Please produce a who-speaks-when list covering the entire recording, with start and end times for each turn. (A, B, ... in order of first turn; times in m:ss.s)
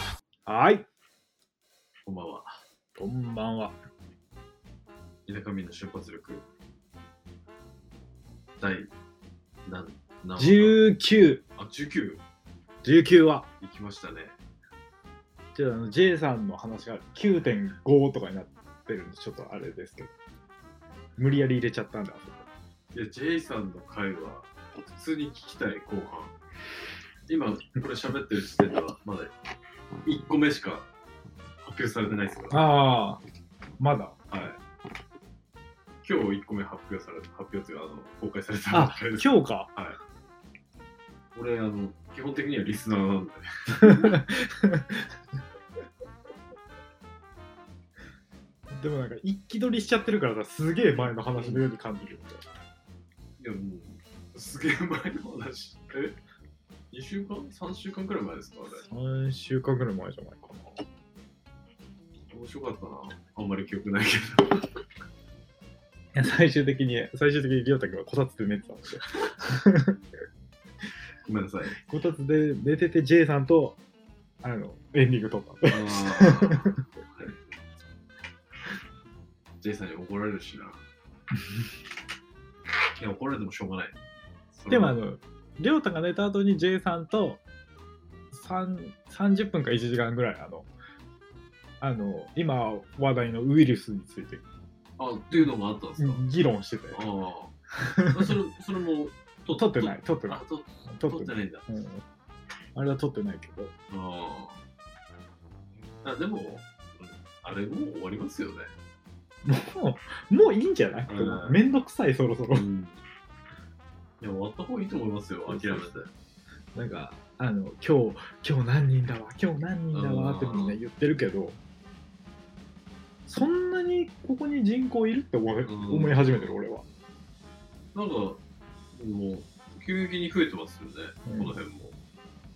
0:00.5-0:00.9 A
0:02.1-0:02.6 B
0:03.0-0:03.8 A
0:05.3-0:06.5 B
0:08.6-0:08.9 B
0:09.6-0:10.9 B
0:10.4-0:11.4 A
0:11.6-0:12.2 B
0:12.8-0:13.5 A
0:13.6-0:14.4 B
0:15.6-0:20.1 A
0:21.2-0:22.5 A
0:22.9-0:26.4 B
0:27.3-0:29.3 B
0:30.1-0:30.9 B
0:31.6-0:32.6 B
0:32.5-0:33.2 A
0:33.8-0:34.2 A
0:34.3-0:34.6 B
0:36.0-0:40.0 B
0:38.7-0:39.7 A
0:41.4-0:44.2 B
0:43.8-0:45.1 A
0:48.7-0:52.4 A
0:51.4-0:51.6 B
0:53.4-0:56.2 B
0:56.9-0:58.9 B
0:58.8-1:00.8 A
1:02.3-1:04.7 B
1:06.2-1:10.0 A
1:11.3-1:11.8 B
1:11.8-1:13.8 A
1:14.4-1:16.7 A
1:15.6-1:17.5 B
1:19.6-1:20.8 B
1:23.0-1:24.0 B
1:24.5-1:25.0 B
1:24.7-1:27.4 A
1:28.3-1:30.7 A
1:31.8-1:34.4 A
1:35.0-1:36.3 B
1:35.4-1:37.0 A
1:36.9-1:37.5 B
1:37.8-1:38.4 A
1:38.1-1:41.7 B
1:39.5-1:42.0 A
1:42.8-1:43.7 A
1:43.9-1:44.6 B
1:46.0-1:48.7 B
1:49.4-1:52.7 A
1:51.1-1:51.6 B
1:52.5-1:53.0 B
1:54.2-1:56.1 B
1:55.5-1:55.9 A
1:56.8-2:01.6 A
1:59.9-2:00.8 B
2:03.3-2:06.8 A
2:05.6-2:06.6 B
2:07.9-2:08.4 B
2:08.9-2:12.0 B
2:11.3-2:11.6 A